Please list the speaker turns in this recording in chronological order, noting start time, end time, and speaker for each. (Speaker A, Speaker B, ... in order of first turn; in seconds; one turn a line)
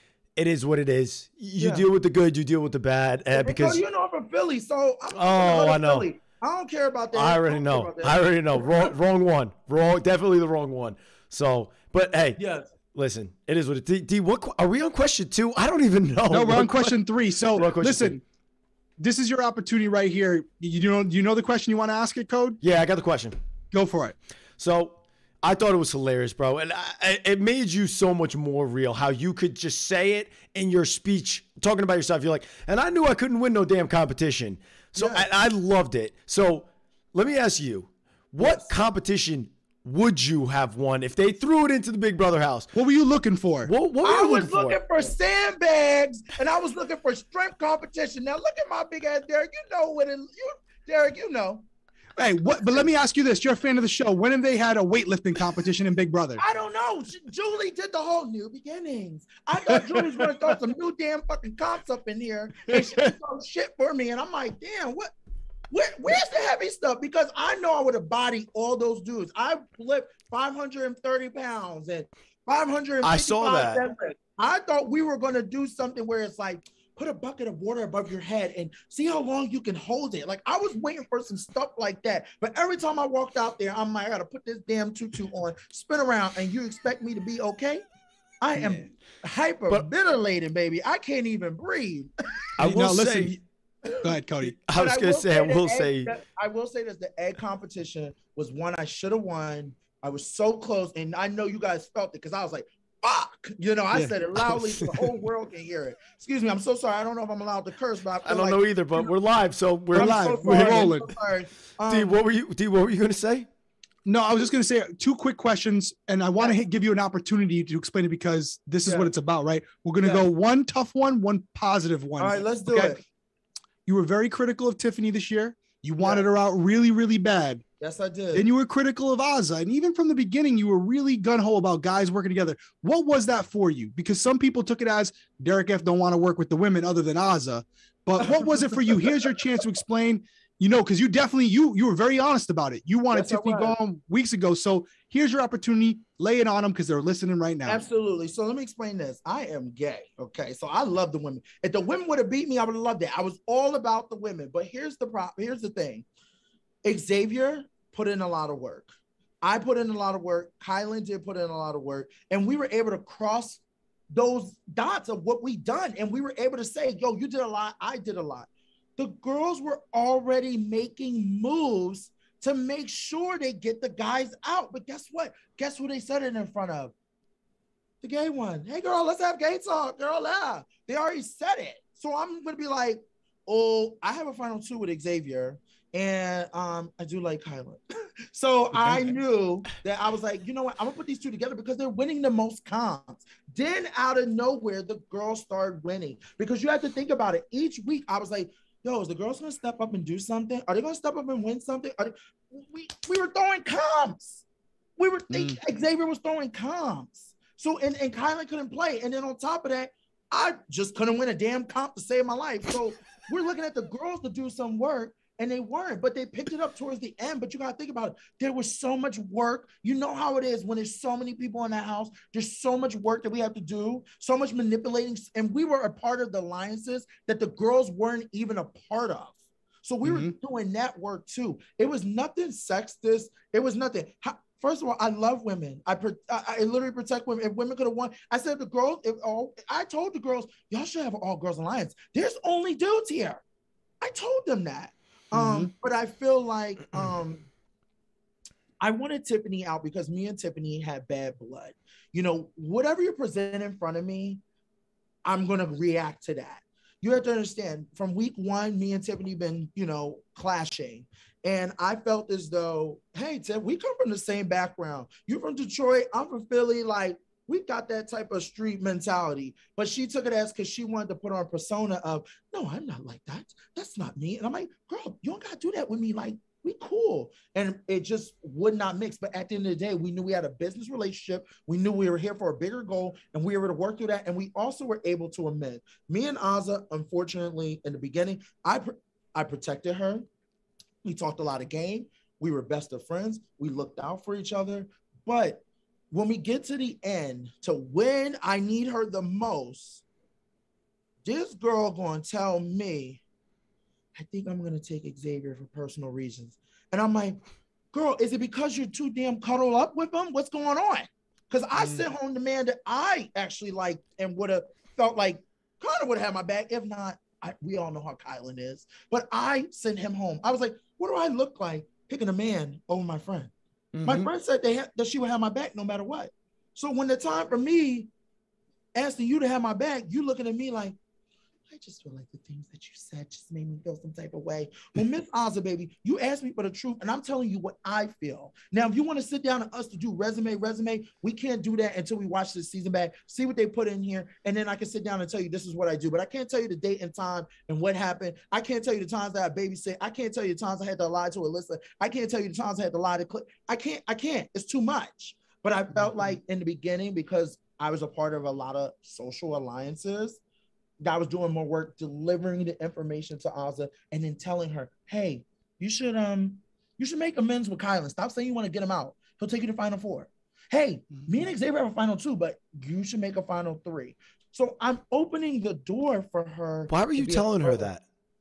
Speaker A: 0.4-3.8
Speaker B: 1.6-1.9
Speaker B: 3.3-8.2
Speaker A: 5.1-6.1
Speaker A: 7.1-12.4
Speaker B: 12.4-12.7
Speaker A: 12.9-16.9
Speaker C: 16.3-18.2
Speaker A: 17.5-18.2
Speaker C: 19.0-22.6
Speaker A: 22.6-23.4
Speaker C: 23.7-24.1
Speaker A: 24.6-42.7
Speaker B: 35.0-35.3
Speaker B: 38.4-38.8
Speaker C: 42.7-43.7
Speaker A: 43.6-45.1
Speaker B: 44.0-51.6
Speaker C: 52.2-56.4
Speaker B: 56.4-65.1
Speaker B: 65.7-87.8
Speaker A: 73.0-73.8
Speaker B: 88.4-92.1
Speaker C: 88.5-88.9
Speaker A: 92.6-93.3
Speaker C: 92.6-93.4
Speaker C: 94.0-94.5
Speaker A: 94.7-96.1
Speaker B: 94.7-109.1
Speaker A: 108.2-111.0
Speaker B: 109.9-112.2
Speaker C: 109.9-111.0
Speaker A: 111.9-113.5
Speaker C: 114.0-123.0
Speaker B: 118.8-119.1
Speaker B: 122.2-123.0
Speaker C: 123.8-127.6
Speaker B: 126.0-126.3
Speaker B: 127.8-128.5
Speaker C: 128.3-147.8
Speaker B: 138.2-139.1
Speaker B: 143.1-143.8
Speaker B: 147.7-156.1
Speaker B: 156.8-158.9
Speaker B: 159.4-176.9
Speaker B: 178.0-204.4
Speaker C: 188.7-189.1
Speaker B: 205.0-243.4
Speaker C: 205.3-205.6
Speaker C: 230.0-230.3
Speaker B: 244.0-247.4
Speaker C: 245.3-245.7
Speaker B: 248.8-254.4
Speaker B: 255.2-290.2
Speaker B: 291.0-300.0
Speaker B: 301.2-303.2
Speaker B: 304.1-307.4
Speaker B: 307.9-323.5
Speaker C: 323.9-324.3
Speaker B: 324.0-328.1
Speaker B: 328.9-331.0
Speaker B: 331.7-360.4
Speaker B: 361.0-377.9
Speaker A: 376.9-378.0